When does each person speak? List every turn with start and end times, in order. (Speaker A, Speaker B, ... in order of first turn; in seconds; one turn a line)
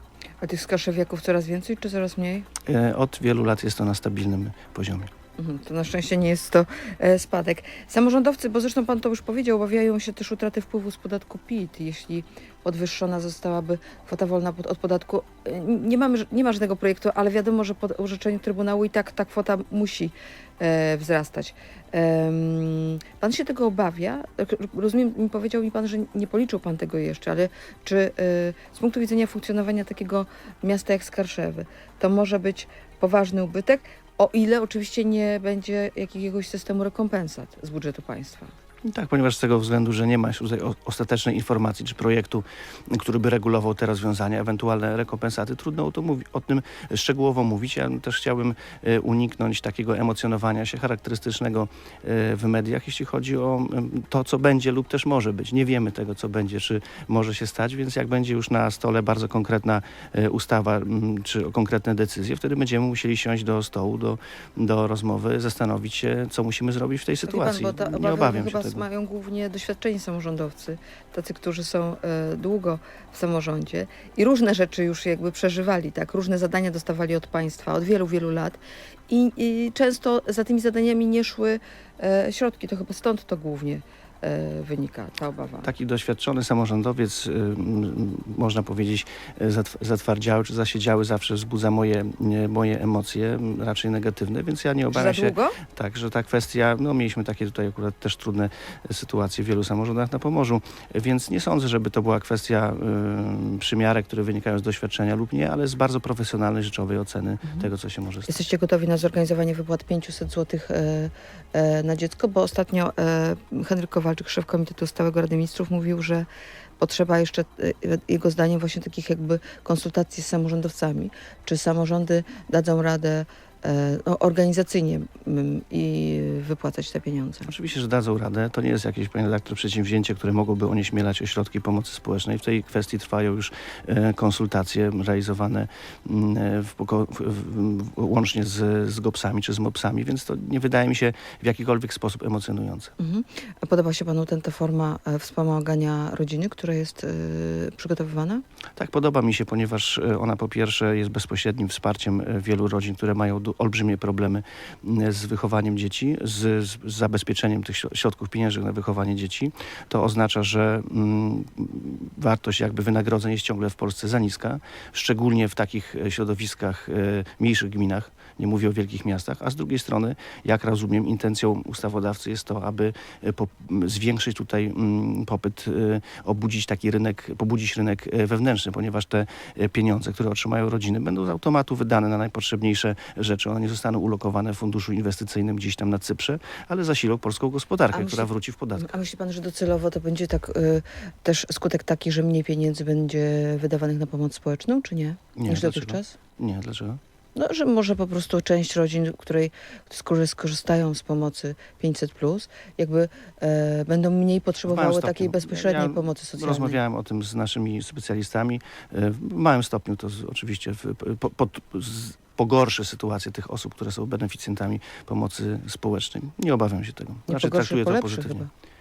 Speaker A: 0.4-2.5
Speaker B: 2.6-5.1
Speaker A: 5.4-38.5
Speaker B: 38.8-68.8
Speaker A: 67.3-85.7
Speaker B: 85.6-108.4
Speaker A: 94.9-95.6
Speaker A: 108.3-116.3
Speaker A: 116.8-127.5
Speaker B: 127.5-142.9
Speaker A: 143.0-148.4
Speaker B: 148.8-189.0
Speaker A: 187.9-196.2
Speaker B: 195.3-197.0
Speaker A: 197.3-206.8
Speaker B: 204.7-218.5
Speaker A: 217.3-218.5